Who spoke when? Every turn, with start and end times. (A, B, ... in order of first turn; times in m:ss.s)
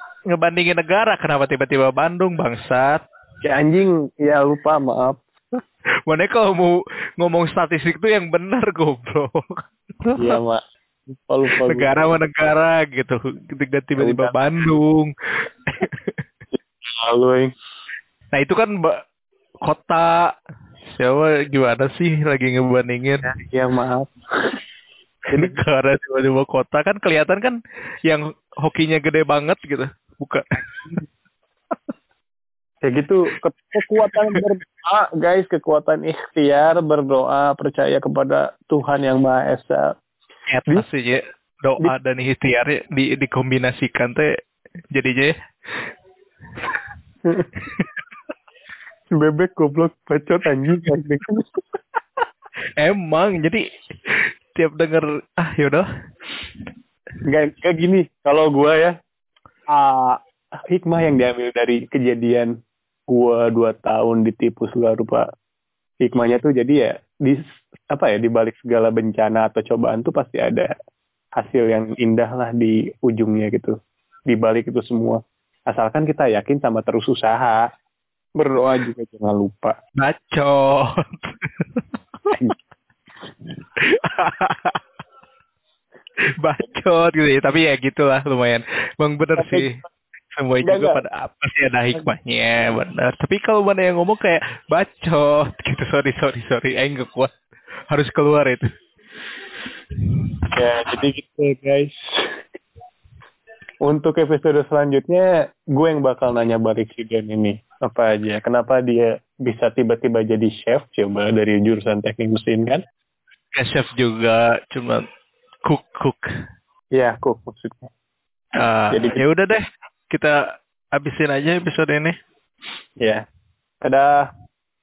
0:00.3-0:03.0 A
0:03.4-0:05.2 B
0:06.1-0:10.4 A
0:10.2-0:12.0 B
0:11.6-0:16.2 A
0:14.0-0:14.3 B
0:16.5-0:17.5 B
0:18.3-0:19.0 A
0:19.6-0:20.4 A
0:20.9-0:23.3 A
0:23.2-0:24.6 B
0:25.3-0:31.0 A
0:32.8-0:39.9 B
0:34.0-0:34.5 A
0:40.5-0:44.3 A
0:44.9-0:45.9 A
0:47.6-0:48.0 A
0:49.2-0:51.6 B
0:52.8-0:55.9 A
0:57.3-0:59.0 B
0:59.7-1:02.5 B
1:03.1-1:05.2 B
1:06.0-1:07.4 B
1:07.9-1:10.7 B
1:11.4-1:13.7 B
1:14.3-1:17.6 B
1:18.4-1:19.7 B
1:20.0-1:22.5 A
1:23.8-1:24.8 A
1:26.4-1:29.8 A
1:29.4-1:29.7 B
1:30.4-1:37.4 A
1:30.6-1:31.0 B
1:37.9-1:38.7 A
1:40.1-1:41.0 A
1:40.6-1:42.1 B
1:43.8-1:52.8 B
1:53.5-1:55.1 A
1:55.6-1:56.3 A
1:57.0-1:57.9 B
1:58.6-2:02.2 A
1:58.9-1:59.2 B
2:03.0-2:03.2 B
2:03.8-2:04.3 B